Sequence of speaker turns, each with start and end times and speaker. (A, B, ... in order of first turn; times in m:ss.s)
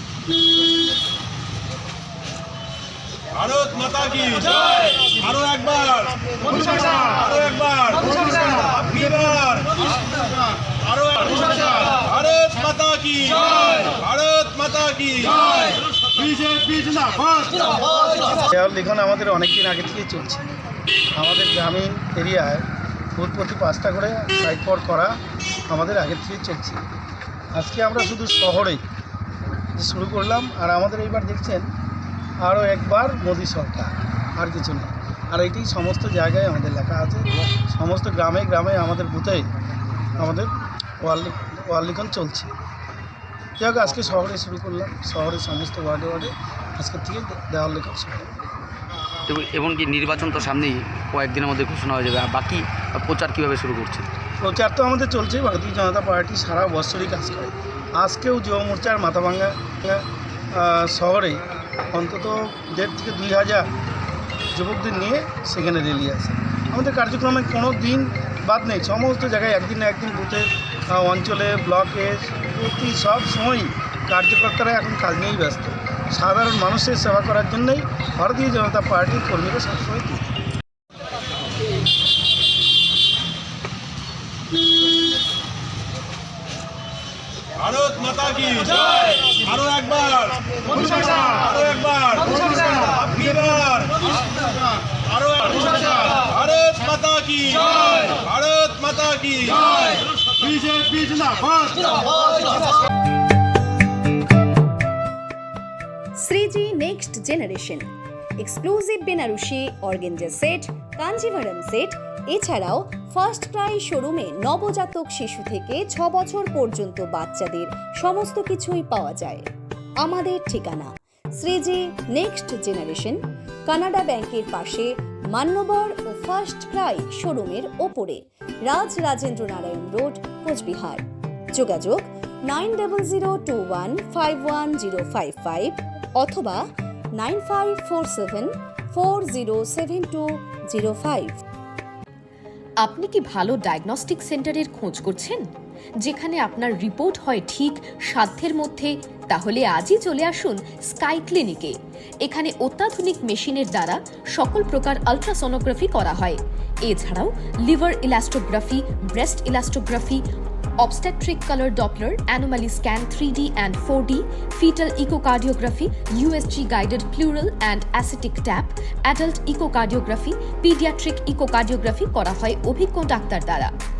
0:03.4-0:09.8 A
0:10.7-0:17.7 A
0:18.2-0:20.4 B
0:21.1-0:25.2 B
0:25.7-0:26.8 B
0:27.5-0:28.8 B
0:29.7-0:31.7 B
0:32.4-0:39.4 B
0:40.2-0:42.5 B
0:43.6-0:48.3 B
0:49.3-0:54.1 C
0:54.4-1:01.4 B
1:01.9-1:03.7 B
1:04.5-1:20.3 B
1:27.6-1:34.1 A
1:35.1-1:39.8 A
1:40.7-1:41.3 A
1:46.2-1:47.9 D
1:48.4-1:59.4 D
2:00.0-2:16.6 D
2:17.2-2:21.4 D
2:22.8-2:25.4 E
2:26.0-2:40.2 E
2:40.8-2:53.7 E